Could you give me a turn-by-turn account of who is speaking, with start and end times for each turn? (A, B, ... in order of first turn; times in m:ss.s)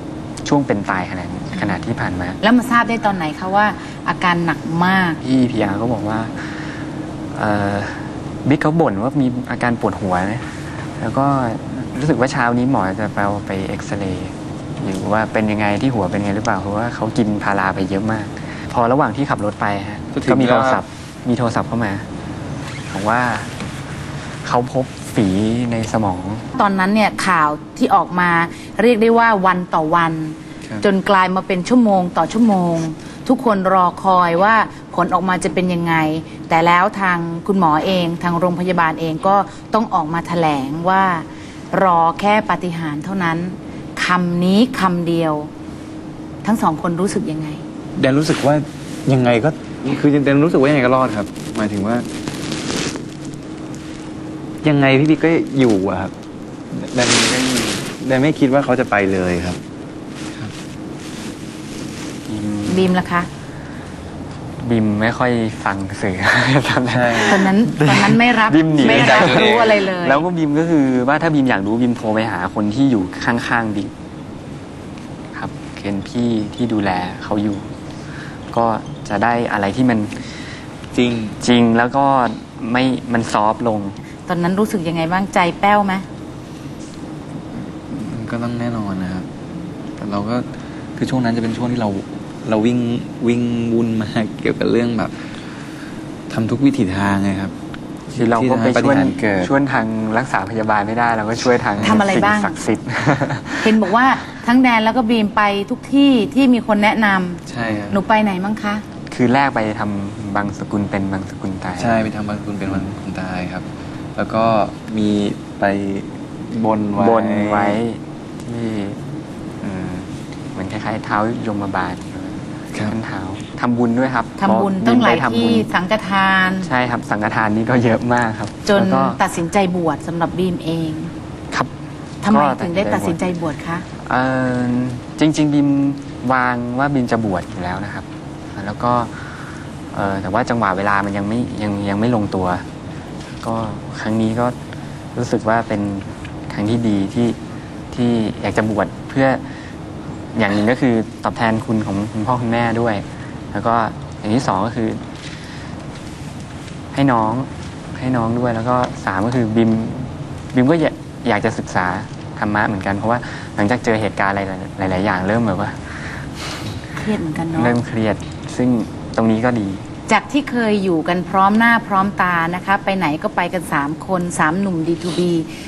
0:00.4-0:02.4 A
0:02.4-0:05.2 B
0:05.2-0:06.7 A
0:07.3-0:22.1 A
0:20.1-0:20.8 C
0:22.9-0:23.5 A
0:24.4-0:26.4 A
0:26.6-0:45.5 B
0:46.4-0:47.6 B
0:48.0-0:52.1 C
0:54.6-0:56.1 C
0:56.7-0:59.6 C
0:57.3-0:57.8 A
1:02.3-1:03.0 A
1:02.7-1:03.3 B
1:04.6-1:13.9 A
1:06.9-1:07.5 C
1:07.3-1:10.2 B
1:08.8-1:09.9 C
1:15.3-1:17.7 A
1:18.5-1:20.4 A
1:20.9-1:21.4 C
1:21.4-1:24.0 A
1:24.3-1:26.0 B
1:27.9-1:29.3 C
1:30.0-1:30.5 C
1:31.0-1:35.2 C
1:36.3-1:37.5 C
1:38.1-1:39.5 C
1:38.1-1:43.9 A
1:41.6-1:42.0 C
1:41.8-1:42.6 B
1:43.6-1:48.8 B
1:47.5-1:48.0 C
1:47.6-1:47.9 A
1:49.1-1:52.1 A
1:51.8-1:57.8 C
1:57.0-1:59.0 A
1:59.6-2:05.7 A
2:04.4-2:06.7 B
2:06.6-2:09.2 A
2:08.7-2:11.1 B
2:12.2-2:13.8 B
2:12.3-2:13.2 A
2:14.0-2:22.6 A
2:23.4-2:24.6 A
2:25.2-2:27.4 A
2:27.9-2:29.4 A
2:30.3-2:35.0 A
2:36.9-2:46.5 A
2:47.0-2:47.8 B
2:47.5-2:49.9 A
2:50.1-2:55.5 B